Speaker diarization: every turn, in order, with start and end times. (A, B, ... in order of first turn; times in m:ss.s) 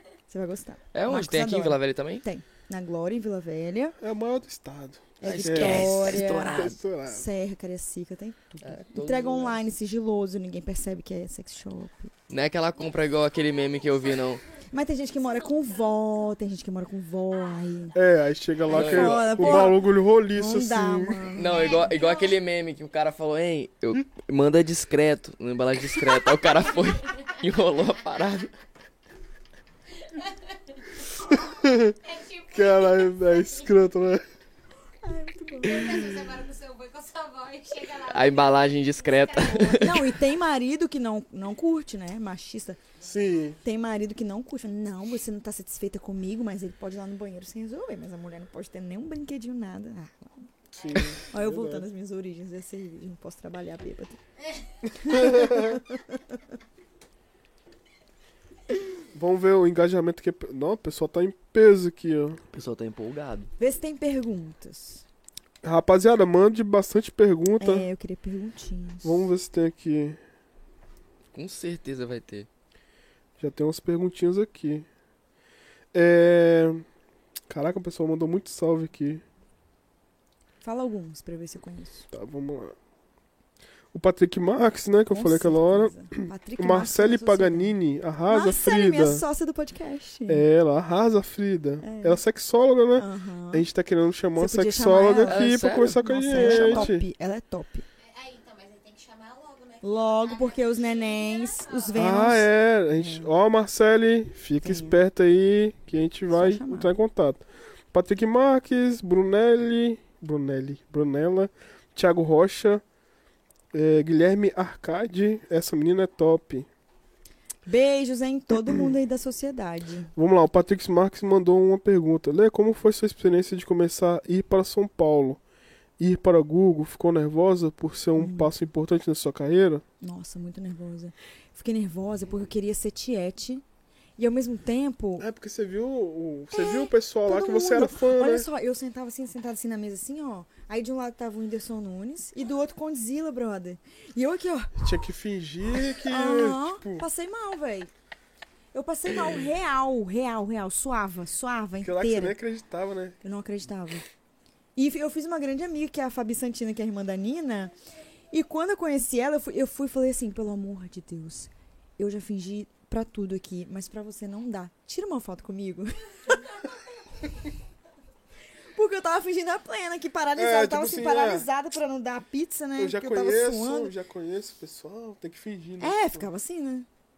0:00.3-0:04.0 A
0:00.9-0:02.2 B
0:04.0-0:07.3 C
0:05.2-0:12.1 A
0:05.2-0:06.8 B
0:08.6-0:09.6 B
0:12.3-0:14.4 B
0:12.7-0:16.3 D
0:14.7-0:18.0 A
0:17.3-0:18.0 D
0:17.9-0:21.3 C
0:18.7-0:19.7 B
0:18.7-0:21.9 A
0:18.8-0:19.5 D
0:21.4-0:28.5 B
0:21.4-0:22.4 D
0:26.5-0:27.3 D
0:30.0-0:33.7 D
0:31.2-0:32.0 C
0:32.5-0:34.2 C
0:35.0-0:36.3 A
0:35.6-0:40.0 D
0:38.0-0:40.2 B
0:39.7-0:42.8 A
0:43.0-0:43.5 D
0:43.0-0:43.6 C
0:43.6-0:50.5 A
0:50.7-0:51.9 C
0:50.7-0:51.2 D
0:51.2-0:54.2 A
0:54.9-0:56.5 A
0:55.0-0:55.8 C
0:59.1-1:02.4 C
1:02.5-1:03.5 B
1:03.6-1:05.0 A
1:05.6-1:07.9 C
1:07.6-1:09.3 A
1:09.0-1:10.2 C
1:11.3-1:12.5 B
1:13.4-1:14.9 C
1:15.9-1:16.8 C
1:17.5-1:19.2 C
1:20.6-1:22.1 A
1:22.1-1:22.7 C
1:23.9-1:29.2 C
1:25.1-1:27.8 A
1:28.3-1:30.4 A
1:30.3-1:37.0 C
1:31.8-1:32.2 A
1:33.0-1:33.7 A
1:34.4-1:37.8 A
1:35.2-1:36.9 B
1:38.0-1:42.0 D
1:39.8-1:43.3 A
1:41.9-1:52.8 C
1:44.6-1:45.0 A
1:46.3-1:46.9 A
1:53.7-1:56.7 C
1:57.6-2:00.1 A
1:58.7-1:58.9 C
2:00.1-2:05.4 C
2:06.0-2:09.8 C
2:08.2-2:08.5 A
2:10.0-2:13.6 A
2:14.2-2:15.2 A
2:15.2-2:18.5 C
2:16.5-2:24.9 A
2:24.8-2:27.1 C
2:26.0-2:27.9 A
2:28.7-2:32.4 A
2:31.8-2:33.2 C
2:33.2-2:34.0 A
2:34.8-2:37.7 A
2:38.3-2:46.5 A
2:46.3-2:47.5 D
2:48.7-2:53.9 A
2:50.4-2:51.5 C
2:52.8-2:56.3 C
2:55.8-2:56.9 A